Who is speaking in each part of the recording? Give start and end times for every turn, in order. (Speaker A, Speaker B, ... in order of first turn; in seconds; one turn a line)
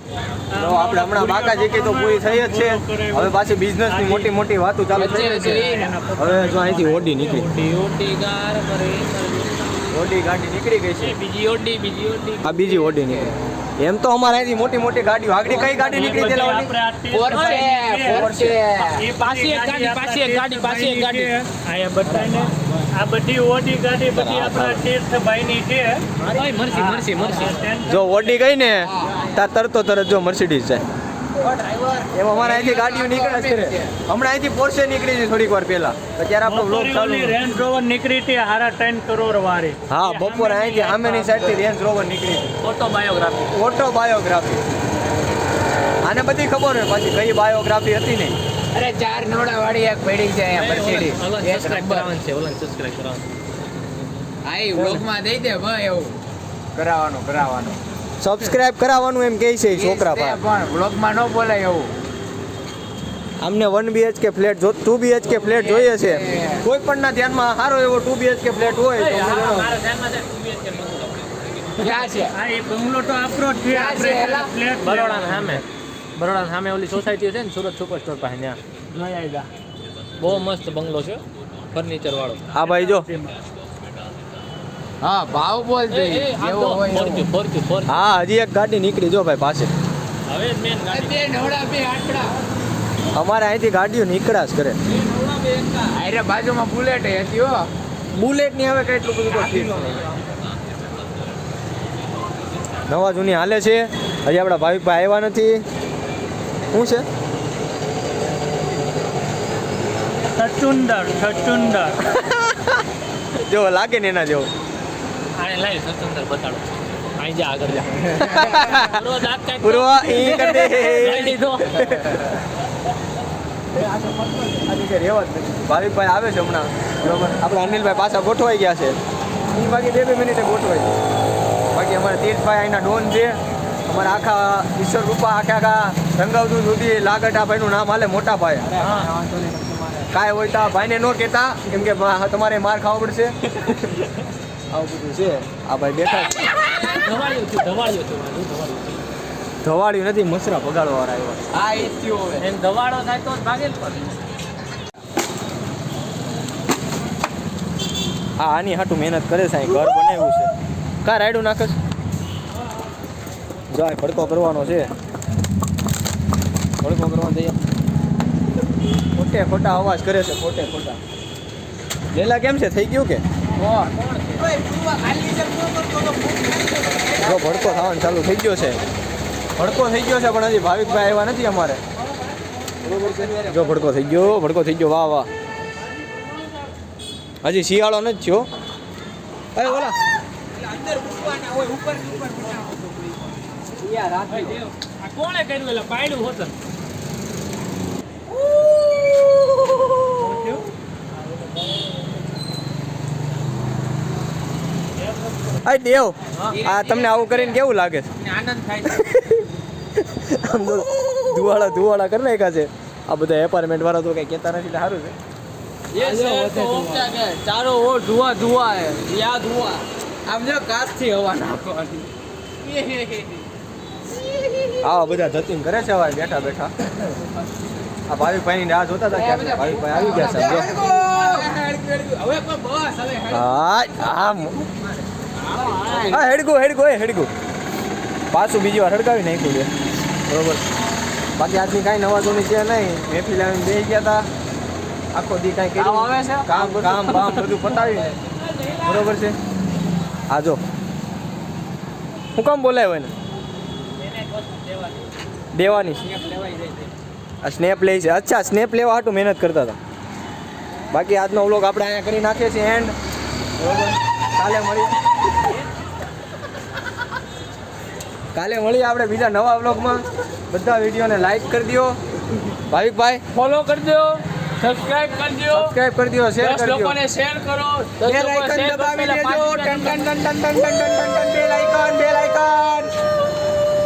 Speaker A: 0.5-7.2
Speaker B: 0.6-7.5
Speaker C: 4.9-5.9
Speaker D: 7.2-9.8
Speaker B: 9.9-11.2
Speaker D: 11.0-13.2
Speaker B: 12.4-16.7
Speaker A: 15.5-26.1
Speaker C: 17.1-19.1
Speaker B: 17.5-18.6
Speaker D: 19.1-21.4
Speaker B: 24.1-24.8
Speaker D: 26.2-27.7
Speaker A: 26.7-28.4
Speaker B: 27.9-30.8
Speaker C: 28.8-29.2
Speaker C: 31.4-34.0
Speaker B: 32.1-37.4
Speaker A: 36.4-41.5
Speaker B: 39.9-42.5
Speaker D: 42.6-43.6
Speaker B: 43.5-44.6
Speaker B: 46.0-48.4
Speaker C: 48.7-52.1
Speaker D: 50.5-53.3
Speaker C: 54.4-56.2
Speaker C: 56.7-57.8
Speaker B: 58.2-60.4
Speaker C: 59.7-61.9
Speaker B: 63.4-69.7
Speaker C: 65.4-66.6
Speaker D: 68.9-71.9
Speaker C: 71.8-72.3
Speaker A: 72.3-75.6
Speaker C: 73.7-74.5
Speaker D: 74.8-75.6
Speaker D: 76.2-78.6
Speaker A: 79.0-79.3
Speaker D: 80.2-82.6
Speaker B: 82.5-83.1
Speaker A: 82.7-83.3
Speaker C: 85.0-87.3
Speaker D: 85.9-88.0
Speaker B: 87.9-89.7
Speaker D: 90.3-91.2
Speaker C: 90.9-92.4
Speaker B: 93.1-94.8
Speaker C: 95.9-97.7
Speaker B: 98.1-100.1
Speaker B: 102.9-105.6
Speaker B: 106.7-107.1
Speaker A: 110.4-112.0
Speaker B: 112.0-112.8
Speaker B: 113.3-114.5
Speaker D: 115.4-122.0
Speaker B: 118.2-119.0
Speaker B: 119.6-122.4
Speaker B: 123.7-129.0
Speaker B: 129.5-130.9
Speaker B: 131.7-138.7
Speaker D: 138.8-139.1
Speaker C: 139.1-140.0
Speaker B: 140.1-144.1
Speaker B: 144.7-146.5
Speaker D: 146.8-149.1
Speaker B: 149.6-151.4
Speaker C: 151.5-152.4
Speaker D: 152.4-154.2
Speaker B: 158.4-160.5
Speaker B: 161.0-161.8
Speaker B: 163.7-164.9
Speaker B: 166.8-167.6
Speaker B: 169.1-171.0
Speaker B: 172.1-173.2
Speaker C: 173.6-177.8
Speaker B: 177.2-178.8
Speaker B: 179.6-181.8
Speaker C: 182.9-183.4
Speaker B: 182.9-185.3
Speaker B: 187.4-188.5
Speaker B: 189.6-190.0
Speaker C: 190.7-192.8
Speaker C: 193.8-194.4
Speaker D: 194.3-196.5
Speaker A: 200.2-200.6
Speaker A: 205.1-205.6
Speaker B: 205.6-208.1
Speaker D: 206.3-206.7
Speaker C: 206.7-207.6
Speaker C: 208.2-209.0
Speaker B: 208.8-209.4
Speaker B: 210.0-215.2
Speaker C: 215.9-217.2
Speaker D: 215.9-219.5
Speaker C: 220.3-222.1
Speaker C: 222.6-223.4
Speaker B: 224.8-226.7
Speaker B: 228.1-230.8
Speaker C: 229.1-233.5
Speaker B: 233.3-234.6
Speaker C: 235.4-236.3
Speaker D: 235.5-236.1
Speaker B: 236.0-237.3
Speaker B: 238.3-239.7
Speaker B: 240.3-240.6
Speaker B: 241.4-244.3
Speaker B: 245.1-248.2
Speaker B: 248.8-249.4
Speaker B: 250.3-250.6
Speaker B: 252.3-253.1
Speaker D: 254.0-255.0
Speaker B: 255.5-256.1
Speaker B: 257.4-259.8
Speaker B: 260.9-262.9
Speaker B: 263.6-264.9
Speaker B: 268.3-272.0
Speaker B: 272.7-273.2
Speaker D: 273.4-274.0
Speaker D: 274.6-275.5
Speaker B: 275.5-277.0
Speaker C: 276.4-280.1
Speaker D: 278.0-280.2
Speaker B: 278.0-282.8